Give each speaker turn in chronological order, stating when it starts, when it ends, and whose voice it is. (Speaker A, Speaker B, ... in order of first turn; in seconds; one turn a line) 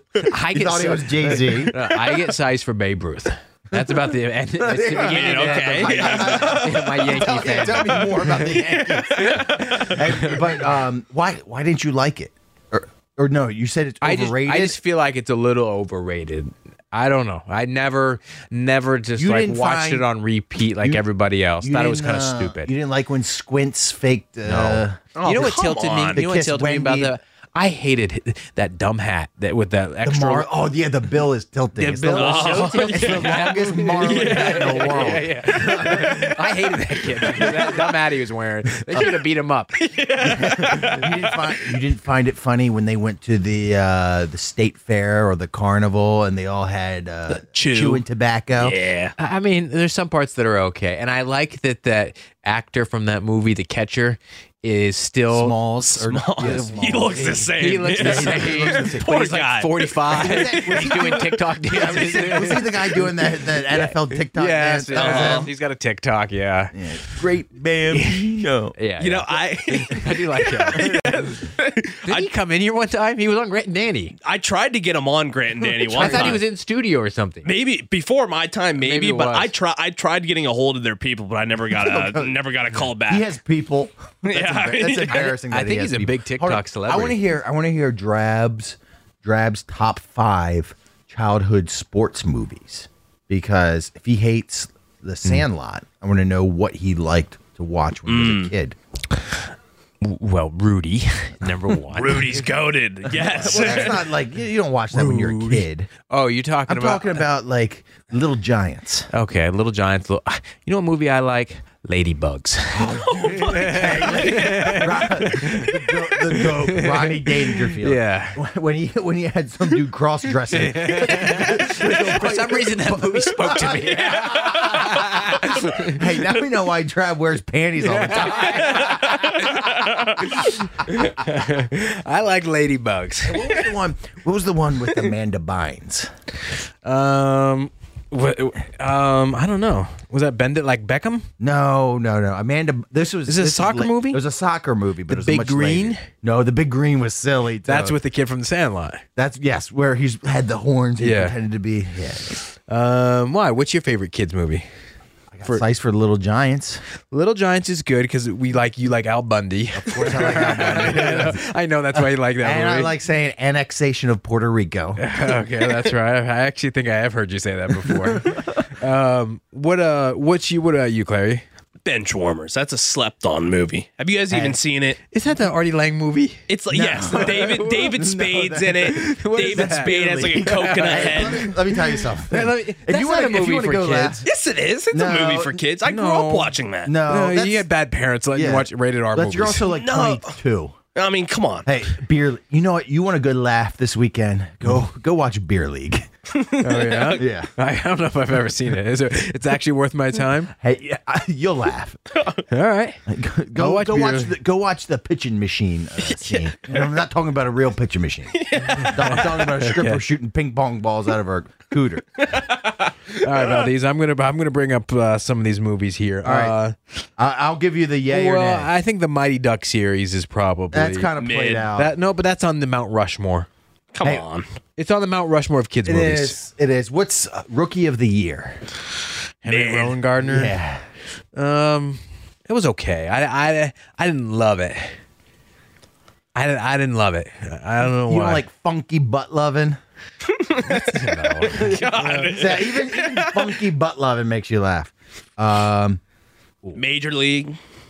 Speaker A: 0.2-10.4
Speaker B: 0.5-1.8
Speaker B: 4.6-14.8
Speaker C: 4.9-7.0
Speaker C: 9.2-9.9
Speaker A: 14.0-22.7
Speaker B: 19.2-20.1
Speaker B: 20.8-21.1
Speaker B: 21.6-27.1
Speaker A: 24.5-30.5
Speaker C: 25.1-26.2
Speaker B: 30.0-36.3
Speaker A: 31.8-39.8
Speaker C: 32.1-36.0
Speaker B: 37.2-37.8
Speaker C: 39.8-41.4
Speaker B: 40.2-48.8
Speaker C: 47.3-48.0
Speaker C: 48.6-49.1
Speaker A: 49.2-55.6
Speaker B: 55.3-59.1
Speaker C: 56.0-60.9
Speaker A: 56.4-63.1
Speaker B: 60.1-65.5
Speaker A: 63.7-67.2
Speaker C: 65.0-65.5
Speaker B: 66.7-68.8
Speaker A: 67.9-71.4
Speaker C: 69.0-72.3
Speaker A: 72.0-74.2
Speaker C: 74.2-76.4
Speaker B: 75.8-76.4
Speaker A: 75.9-77.5
Speaker C: 77.5-83.3
Speaker A: 78.8-79.5
Speaker B: 81.8-82.4
Speaker B: 83.0-98.8
Speaker C: 84.3-85.2
Speaker A: 85.1-87.2
Speaker C: 98.1-98.5
Speaker A: 100.0-102.4
Speaker C: 101.9-104.0
Speaker A: 103.3-103.9
Speaker B: 103.3-105.9
Speaker A: 104.9-107.2
Speaker B: 106.7-109.1
Speaker A: 109.1-118.4
Speaker B: 112.7-129.7
Speaker C: 113.1-113.6
Speaker A: 120.5-126.0
Speaker A: 127.8-129.7
Speaker C: 128.8-130.2
Speaker A: 130.2-133.6
Speaker B: 133.3-136.1
Speaker A: 136.8-141.3
Speaker B: 141.4-148.0
Speaker A: 143.3-144.2
Speaker A: 145.1-146.1
Speaker A: 147.7-149.0
Speaker B: 149.2-152.4
Speaker A: 151.0-151.4
Speaker A: 152.7-154.7
Speaker B: 155.3-156.8
Speaker A: 157.1-162.9
Speaker B: 159.8-161.4
Speaker B: 162.4-165.1
Speaker A: 165.0-171.4
Speaker B: 167.9-168.6
Speaker C: 171.9-175.0
Speaker B: 174.3-174.6
Speaker A: 175.1-176.4
Speaker C: 176.5-181.5
Speaker B: 176.7-184.3
Speaker A: 177.1-177.9
Speaker A: 178.9-184.2
Speaker C: 184.2-186.9
Speaker B: 184.9-185.6
Speaker A: 185.9-186.5
Speaker B: 186.8-187.7
Speaker A: 187.1-189.7
Speaker B: 188.3-190.8
Speaker C: 189.7-190.4
Speaker C: 190.9-191.7
Speaker B: 191.7-196.1
Speaker C: 196.3-197.2
Speaker A: 196.6-200.5
Speaker B: 197.2-197.5
Speaker B: 200.5-202.0
Speaker A: 202.5-203.0
Speaker B: 203.1-212.2
Speaker A: 203.6-204.3
Speaker C: 208.3-209.2
Speaker A: 208.7-210.0
Speaker C: 212.2-212.9
Speaker A: 213.2-216.8
Speaker B: 216.2-216.6
Speaker B: 217.2-218.7
Speaker A: 218.1-221.1
Speaker B: 220.7-221.9
Speaker C: 221.2-221.7
Speaker A: 221.8-223.5
Speaker C: 223.9-224.4
Speaker A: 224.8-226.4
Speaker B: 225.8-228.6
Speaker A: 229.4-230.6
Speaker C: 229.5-230.0
Speaker B: 230.2-230.8
Speaker A: 231.3-235.0
Speaker A: 236.3-238.4
Speaker B: 238.0-239.8
Speaker C: 240.3-240.6
Speaker A: 240.6-242.4
Speaker B: 241.5-246.0
Speaker C: 241.6-243.5
Speaker C: 246.8-247.6